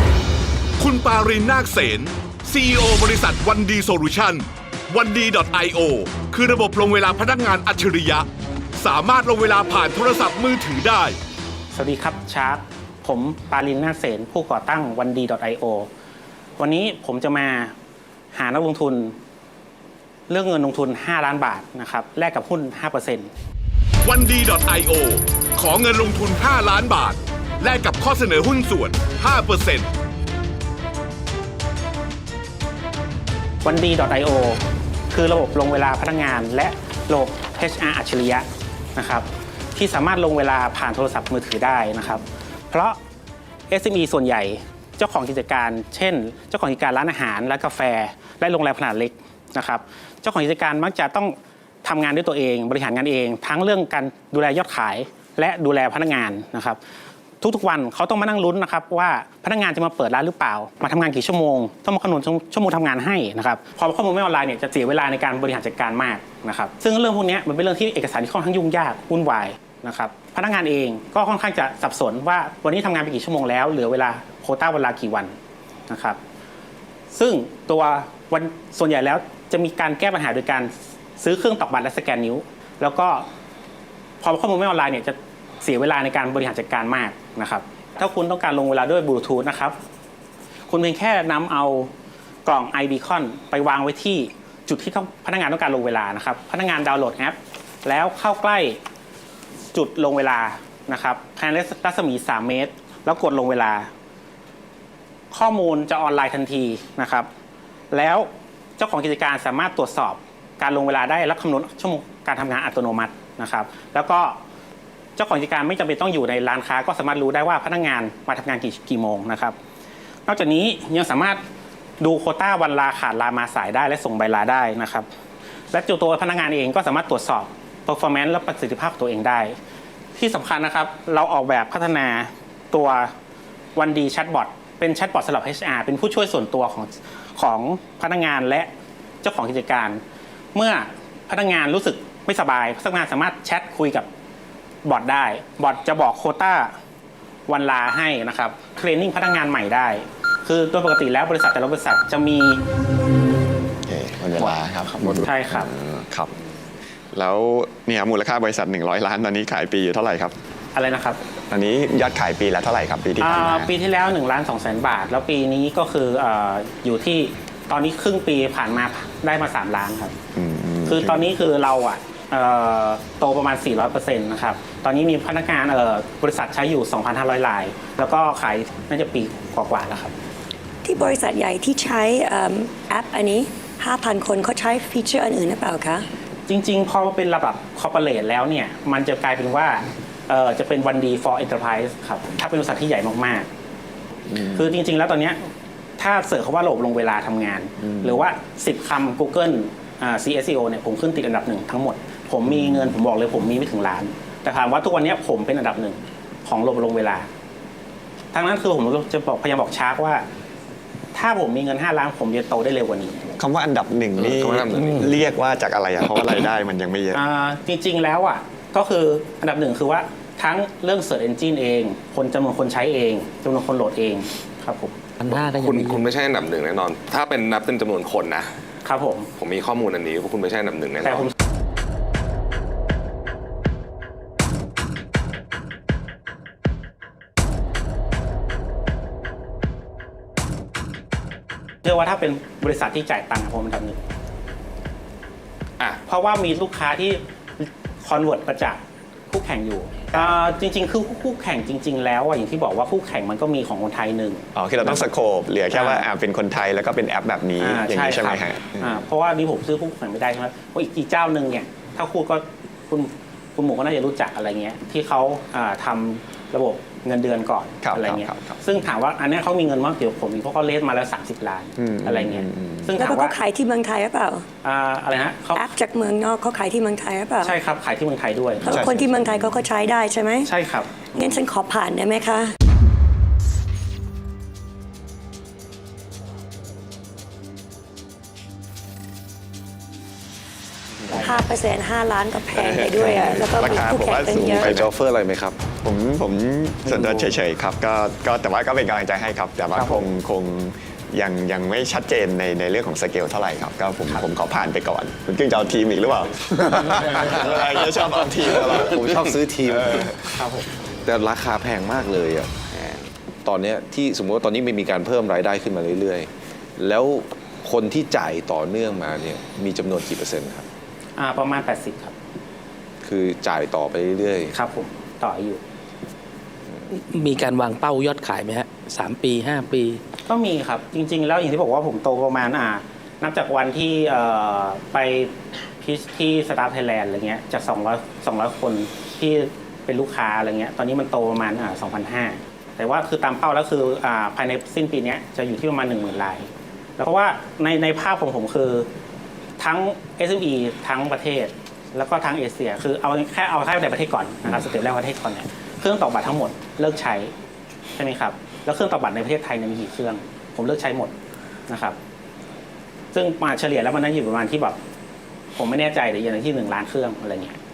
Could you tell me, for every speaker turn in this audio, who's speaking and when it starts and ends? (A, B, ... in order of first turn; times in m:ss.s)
0:00.8-0:08.3 A
0:08.8-0:11.2 A
0:11.7-0:15.9 B
0:16.6-0:17.8 B
0:18.3-0:19.2 B
0:20.3-0:23.3 B
0:24.0-0:29.9 A
0:33.6-0:43.0 B
0:43.7-0:56.8 B
0:57.4-1:15.4 B
1:15.9-1:16.2 B
1:17.1-1:23.3 B
1:24.2-1:29.8 B
1:30.7-1:31.9 B
1:32.4-1:38.8 B
1:39.7-1:43.9 B
1:45.3-1:47.3 B
1:47.9-1:54.4 B
1:55.2-1:59.6 B
2:00.3-2:01.4 B
2:02.0-2:05.1 B
2:05.7-2:09.6 B
2:10.2-2:13.1 B
2:13.8-2:18.7 B
2:19.2-2:20.0 B
2:20.5-2:24.1 B
2:24.8-2:26.8 B
2:27.5-2:32.6 B
2:33.9-2:36.3 C
2:34.9-2:35.7 B
2:37.1-2:40.4 C
2:40.8-2:41.2 B
2:41.5-2:43.7 C
2:43.2-2:50.2 B
2:50.4-2:51.3 C
2:50.9-3:00.1 B
3:00.8-3:06.1 D
3:06.5-3:13.5 B
3:14.3-3:15.4 B
3:16.0-3:27.3 B
3:28.3-3:30.2 B
3:31.1-3:33.3 B
3:33.4-3:37.2 C
3:34.2-3:35.1 E
3:37.1-3:45.0 B
3:45.2-3:46.0 F
3:45.2-3:48.5 E
3:48.8-3:49.3 B
3:49.4-3:51.3 E
4:01.8-4:04.0 B
4:06.1-4:15.0 B
4:14.6-4:19.0 C
4:15.7-4:16.0 B
4:17.6-4:33.4 B
4:27.8-4:28.6 C
4:31.8-4:33.0 C
4:33.0-4:34.5 D
4:34.6-4:35.7 B
4:35.6-4:37.6 D
4:37.4-4:38.7 B
4:38.6-4:39.6 C
4:38.6-4:40.5 D
4:40.4-4:41.1 B
4:41.1-4:42.6 D
4:51.1-4:54.8 D
4:52.6-4:53.4 G
4:53.3-4:54.9 C
4:54.5-4:55.6 G
4:55.8-5:09.0 C
4:59.8-5:00.0 B
5:08.6-5:09.4 E
5:08.8-5:10.2 G
5:09.7-5:10.1 C
5:10.4-5:10.7 B
5:11.0-5:12.5 G
5:12.7-5:13.1 E
5:13.4-5:20.7 G
5:21.2-5:22.1 B
5:23.0-5:24.5 G
5:24.5-5:25.6 B
5:26.9-5:30.0 F
5:30.3-5:48.9 B
5:49.6-5:57.3 B
5:58.0-6:01.1 B
6:01.7-6:02.0 B
6:03.1-6:04.8 B
6:05.6-6:07.6 B